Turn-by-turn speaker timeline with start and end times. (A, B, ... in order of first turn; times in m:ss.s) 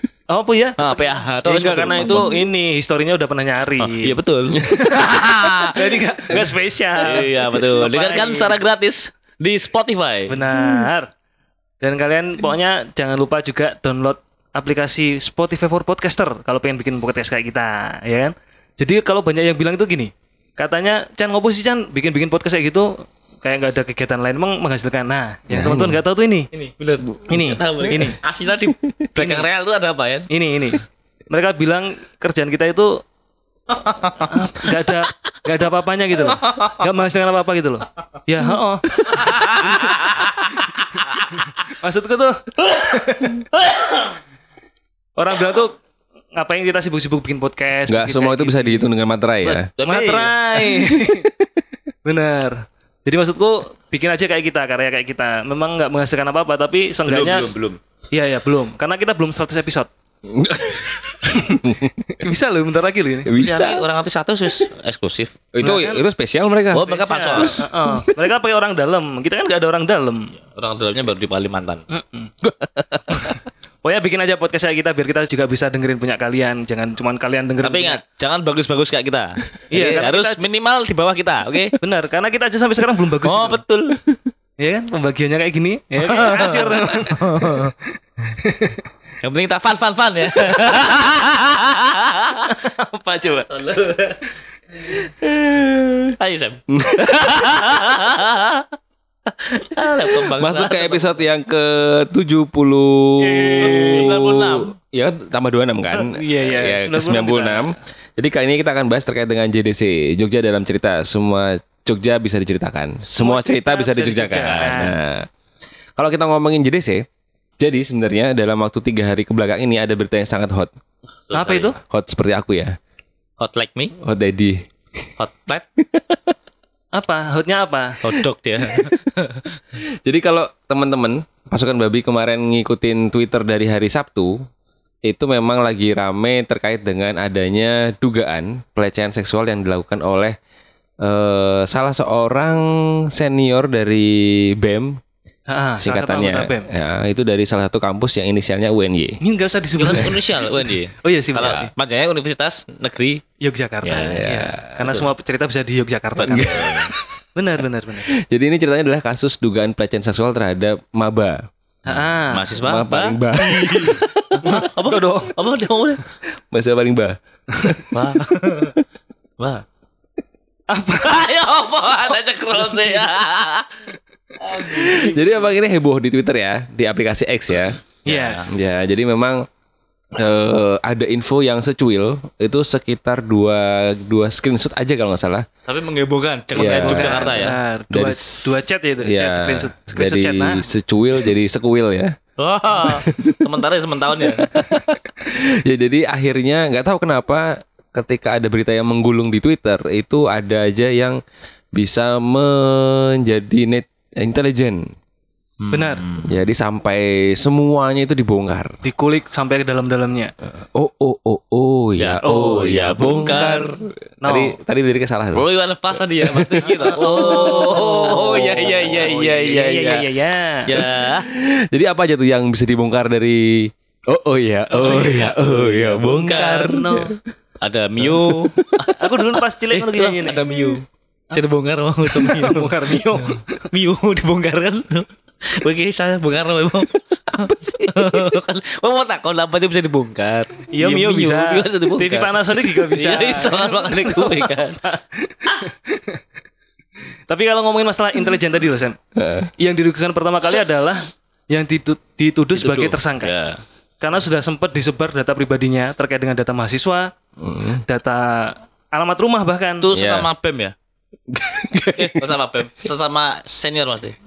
0:00.3-0:08.6 A
0:00.8-0:02.4 B
0:03.8-0:06.0 B
0:04.6-0:04.8 C
0:07.0-0:10.4 B
0:10.3-0:11.1 A
0:11.8-0:26.5 A
0:25.5-0:26.0 C
0:26.5-0:30.3 B
0:27.3-0:28.2 A
0:29.2-0:29.5 A
0:30.3-0:33.0 A
0:33.7-0:34.4 B
0:34.2-0:38.9 A
0:36.3-0:36.8 B
0:39.1-0:40.3 B
0:41.7-0:43.4 A
0:43.6-0:44.0 B
0:45.2-0:45.8 A
0:46.3-0:48.9 A
0:47.9-0:49.7 C
0:49.4-0:50.3 B
0:49.8-0:51.3 A
0:52.0-0:57.5 A
0:57.1-0:57.8 B
0:58.1-0:59.9 A
1:00.3-1:02.2 C
1:01.3-1:01.6 A
1:02.2-1:03.3 A
1:03.2-1:03.8 C
1:03.3-1:05.4 B
1:05.5-1:07.5 C
1:05.6-1:06.0 A
1:06.7-1:07.6 B
1:06.8-1:10.3 A
1:10.5-1:11.8 B
1:11.9-1:12.3 A
1:12.4-1:13.4 C
1:13.1-1:18.0 A
1:17.6-1:21.8 B
1:19.7-1:20.4 A
1:21.8-1:23.6 A
1:23.2-1:24.0 B
1:24.6-1:27.7 A
1:26.0-1:27.7 B
1:28.3-1:28.8 A
1:29.2-1:32.5 B
1:32.5-1:33.5 A
1:33.5-1:34.3 B
1:35.2-1:36.1 C
1:36.2-1:38.7 B
1:36.7-1:37.4 C
1:39.4-1:41.2 B
1:40.3-1:55.3 C
1:43.2-1:44.1 A
1:43.6-1:44.7 B
1:45.9-1:47.8 A
1:53.1-1:55.0 A
1:56.0-1:57.0 C
1:57.6-2:00.7 C
2:01.3-2:01.7 B
2:01.3-2:01.8 A
2:01.8-2:02.8 C
2:03.4-2:03.9 B
2:04.0-2:04.6 C
2:05.2-2:05.6 B
2:05.8-2:06.2 C
2:06.9-2:08.1 A
2:08.0-2:09.5 B
2:08.7-2:08.9 C
2:09.8-2:14.4 C
2:15.0-2:20.4 C
2:21.0-2:25.0 C
2:25.5-2:26.7 A
2:25.8-2:29.2 C
2:29.2-2:31.7 A
2:29.8-2:33.2 B
2:33.4-2:36.6 A
2:33.8-2:34.2 B
2:34.0-2:35.1 C
2:36.2-2:36.9 B
2:36.3-2:37.1 C
2:37.3-2:38.1 A
2:38.1-2:41.5 C
2:41.8-2:42.5 A
2:42.3-2:46.0 B
2:42.6-2:44.3 C
2:44.3-2:45.4 A
2:46.5-2:48.0 C
2:47.6-2:47.8 A
2:47.9-2:48.8 B
2:49.4-2:49.6 B
2:50.7-2:51.2 A
2:51.0-2:53.8 B
2:52.6-2:53.0 A
2:54.4-2:55.2 B
2:54.6-2:57.8 C
2:58.0-2:58.5 A
2:58.0-2:58.5 B
2:58.5-2:59.4 C
3:00.2-3:05.5 C
3:05.6-3:07.6 B
3:06.5-3:12.2 C
3:06.6-3:10.6 A
3:12.4-3:14.6 B
3:12.8-3:13.4 C
3:14.2-3:21.2 C
3:21.7-3:24.9 C
3:25.6-3:26.3 B
3:25.7-3:26.0 A
3:26.2-3:28.8 C
3:28.8-3:30.3 A
3:30.5-3:35.4 C
3:32.0-3:33.7 B
3:32.2-3:32.6 A
3:34.2-3:34.6 A
3:35.3-3:39.6 B
3:36.2-3:40.0 C
3:36.9-3:40.7 A
3:40.6-3:41.3 B
3:40.7-3:47.2 C
3:44.7-3:45.5 A
3:44.8-3:46.9 B
3:46.1-3:47.1 A
3:47.6-3:49.0 B
3:48.0-3:48.9 C
3:49.0-3:50.4 A
3:49.7-4:04.8 B
3:52.1-3:53.6 A
3:57.3-3:58.4 C
4:00.7-4:06.2 A
4:07.3-4:09.0 A
4:09.1-4:09.5 C
4:09.6-4:13.3 A
4:12.6-4:13.6 B
4:14.0-4:17.1 A
4:17.4-4:17.8 C
4:17.8-4:19.9 A
4:19.8-4:20.7 B
4:19.9-4:20.3 C
4:21.3-4:22.3 C
4:21.9-4:24.2 B